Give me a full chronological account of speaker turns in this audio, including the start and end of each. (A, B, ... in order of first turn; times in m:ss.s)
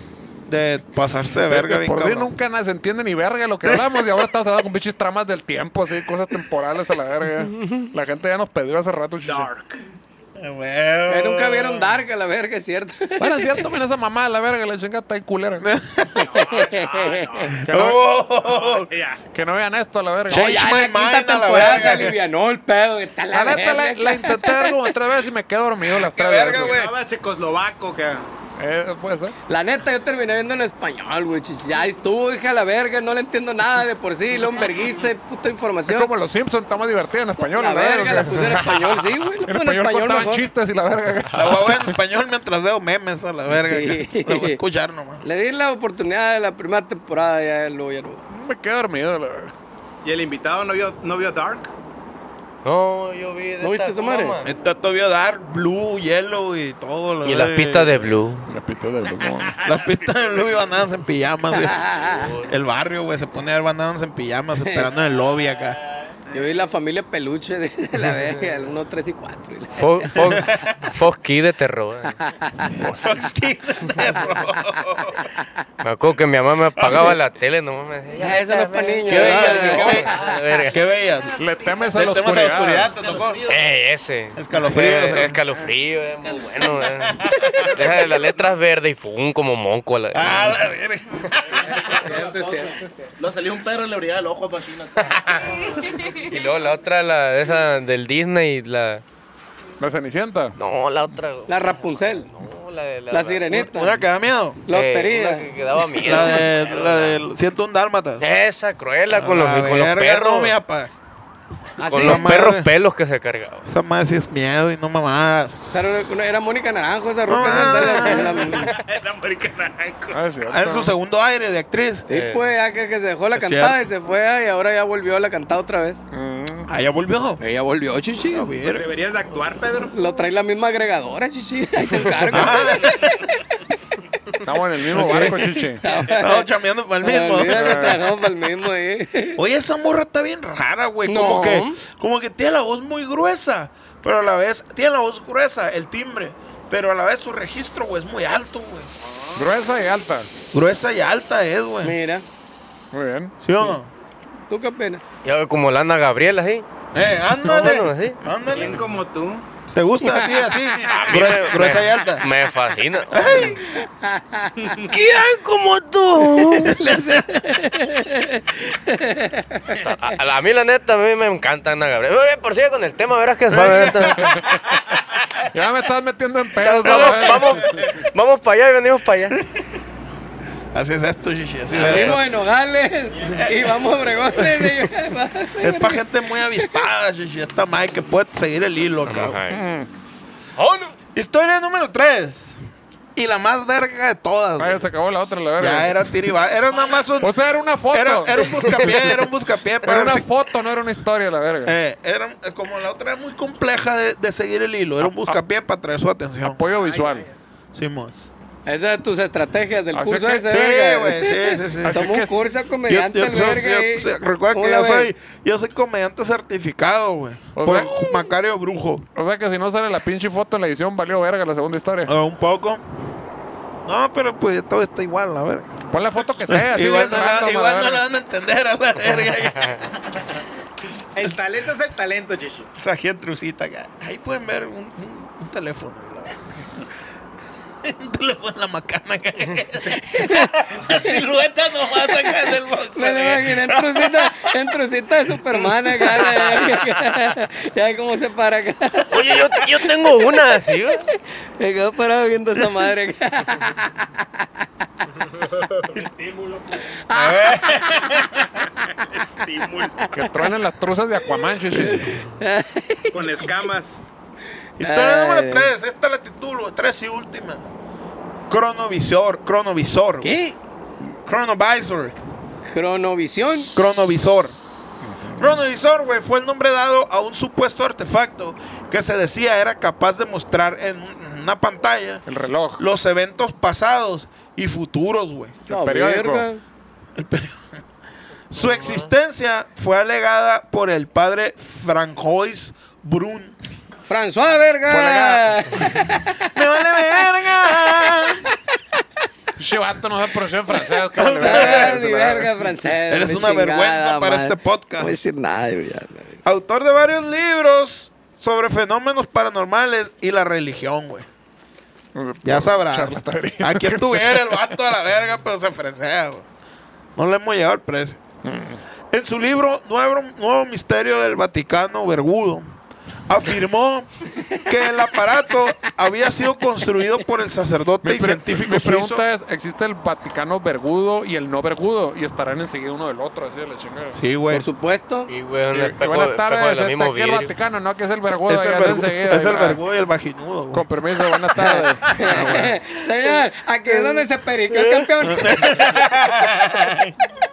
0:00.5-0:02.3 A
0:01.5-0:09.5 B
0:03.7-0:04.0 A
0:09.2-0:09.8 C
0:10.4-0:12.0 A
0:11.1-0:13.6 D
0:13.2-0:15.7 B
0:15.6-0:16.4 A
0:16.2-0:17.6 C
0:16.3-0:17.5 D
0:17.6-0:18.9 A
0:17.6-0:18.0 B
0:18.4-0:19.2 C
0:19.3-0:20.6 B
0:20.3-0:22.2 A
0:20.3-0:24.8 D
0:23.3-0:26.8 B
0:26.0-0:26.9 A
0:26.3-0:28.3 C
0:28.6-0:29.4 B
0:29.5-0:36.1 D
0:35.9-0:41.9 B
0:37.3-0:40.5 D
0:41.4-0:45.2 A
0:43.5-0:44.6 D
0:45.2-0:48.2 D
0:48.3-0:49.5 B
0:50.0-0:51.7 C
0:52.6-0:54.5 E
0:53.6-0:54.4 D
0:54.4-0:58.2 A
0:57.2-0:58.5 E
0:58.5-0:59.6 B
0:59.6-1:01.9 A
0:59.7-1:00.5 F
1:01.5-1:02.3 D
1:01.9-1:02.6 E
1:02.5-1:05.8 A
1:04.6-1:04.9 D
1:06.3-1:10.3 D
1:09.8-1:12.2 E
1:10.2-1:10.8 A
1:12.2-1:12.8 D
1:12.8-1:15.2 A
1:12.8-1:13.1 B
1:15.8-1:20.8 E
1:16.8-1:17.2 A
1:18.2-1:20.3 D
1:19.1-1:20.1 A
1:20.7-1:23.4 A
1:21.4-1:22.9 B
1:22.9-1:23.7 F
1:23.5-1:30.6 E
1:24.4-1:25.4 A
1:26.2-1:26.7 F
1:27.0-1:28.0 A
1:30.1-1:31.8 A
1:31.5-1:35.8 F
1:31.9-1:32.9 C
1:36.0-1:39.0 E
1:39.8-1:40.6 B
1:40.6-1:43.5 E
1:41.5-1:42.3 D
1:43.1-1:44.0 D
1:43.5-1:44.6 A
1:44.7-1:45.5 D
1:44.7-1:47.2 E
1:46.0-1:48.2 A
1:48.2-1:50.6 E
1:49.1-1:50.9 A
1:51.8-1:52.4 D
1:51.9-1:53.7 E
1:51.9-1:52.7 A
1:53.7-1:56.1 A
1:55.7-1:58.7 D
1:57.3-1:58.5 A
1:58.3-2:00.1 C
1:58.9-2:00.1 F
2:00.1-2:01.0 B
2:00.5-2:02.1 A
2:02.1-2:06.0 D
2:02.1-2:02.4 E
2:03.4-2:03.8 A
2:06.1-2:06.7 B
2:06.7-2:07.4 A
2:07.4-2:08.5 D
2:08.3-2:08.9 A
2:08.6-2:09.9 C
2:09.8-2:13.1 D
2:12.3-2:13.3 A
2:14.4-2:15.8 B
2:14.9-2:18.0 A
2:15.8-2:16.5 D
2:17.0-2:19.4 D
2:17.5-2:18.1 B
2:19.4-2:28.9 A
2:21.0-2:21.8 D
2:29.4-2:30.3 B
2:30.5-2:32.0 A
2:31.8-2:32.3 D
2:32.9-2:33.3 B
2:33.4-2:33.9 A
2:34.5-2:35.0 D
2:35.2-2:36.7 E
2:36.9-2:38.8 A
2:37.4-2:38.2 E
2:38.5-2:39.4 C
2:39.7-2:42.3 A
2:40.8-2:41.1 C
2:40.9-2:43.5 E
2:43.1-2:43.6 A
2:43.7-2:44.5 D
2:44.6-2:44.9 C
2:44.8-2:46.8 E
2:46.5-2:47.4 A
2:46.8-2:49.8 D
2:49.7-2:54.3 E
2:53.5-2:55.2 A
2:55.5-2:57.7 B
2:56.6-2:59.4 E
2:56.8-2:57.8 A
3:00.7-3:02.2 A
3:01.7-3:02.2 E
3:01.7-3:06.0 D
3:03.3-3:03.7 A
3:05.6-3:09.4 A
3:06.6-3:06.8 D
3:09.0-3:09.6 E
3:09.5-3:09.9 B
3:10.6-3:10.9 E
3:11.2-3:12.6 A
3:13.2-3:14.8 A
3:14.6-3:16.1 B
3:15.6-3:17.3 A
3:16.7-3:17.0 F
3:17.2-3:19.0 B
3:17.9-3:20.3 A
3:19.8-3:21.8 B
3:21.6-3:26.6 A
3:25.0-3:25.4 B
3:26.4-3:27.3 B
3:26.8-3:27.3 C
3:27.7-3:28.1 A
3:28.7-3:35.1 D
3:29.9-3:30.5 B
3:30.5-3:32.0 A
3:31.8-3:32.5 B
3:32.9-3:39.1 A
3:37.6-3:37.9 B
3:39.2-3:42.1 B
3:42.1-3:42.8 A
3:43.9-3:45.8 A
3:45.9-3:48.0 B
3:46.5-3:49.9 A
3:51.2-3:52.7 C
3:52.8-3:56.4 A
3:57.8-4:04.5 A
3:59.9-4:01.2 D
4:02.1-4:09.2 D
4:05.5-4:06.4 A
4:09.1-4:11.1 E
4:09.2-4:09.5 A
4:11.6-4:14.7 D
4:15.4-4:17.0 F
4:16.9-4:18.4 D
4:17.1-4:18.6 A
4:19.1-4:20.0 C
4:20.0-4:20.4 D
4:20.1-4:22.2 B
4:21.7-4:23.7 D
4:23.1-4:24.0 C
4:24.8-4:27.6 A
4:24.8-4:25.7 D
4:28.5-4:30.3 A
4:30.2-4:30.6 D
4:31.2-4:32.2 A
4:32.7-4:33.7 D
4:33.8-4:34.6 A
4:35.0-4:35.6 B
4:35.4-4:42.2 A
4:42.3-4:42.8 B
4:42.8-4:45.6 A
4:45.7-4:46.6 D
4:45.7-4:46.5 B
4:47.2-4:47.6 A
4:48.5-4:53.6 A
4:54.1-4:57.3 D
4:54.9-4:56.1 B
4:56.4-4:58.5 A
4:59.6-5:02.7 B
5:01.1-5:02.3 A
5:01.4-5:06.4 D
5:03.1-5:05.2 A
5:06.4-5:11.3 A
5:12.2-5:14.6 B
5:12.4-5:16.5 A
5:17.2-5:18.2 A
5:18.4-5:18.8 B
5:19.1-5:22.7 A
5:23.3-5:29.2 A
5:28.0-5:34.2 B
5:34.1-5:34.6 A
5:34.5-5:35.3 D
5:35.3-5:37.5 E
5:35.7-5:39.8 B
5:38.5-5:40.8 A
5:40.7-5:42.8 B
5:41.6-5:45.8 D
5:42.2-5:42.8 A
5:45.2-5:47.2 A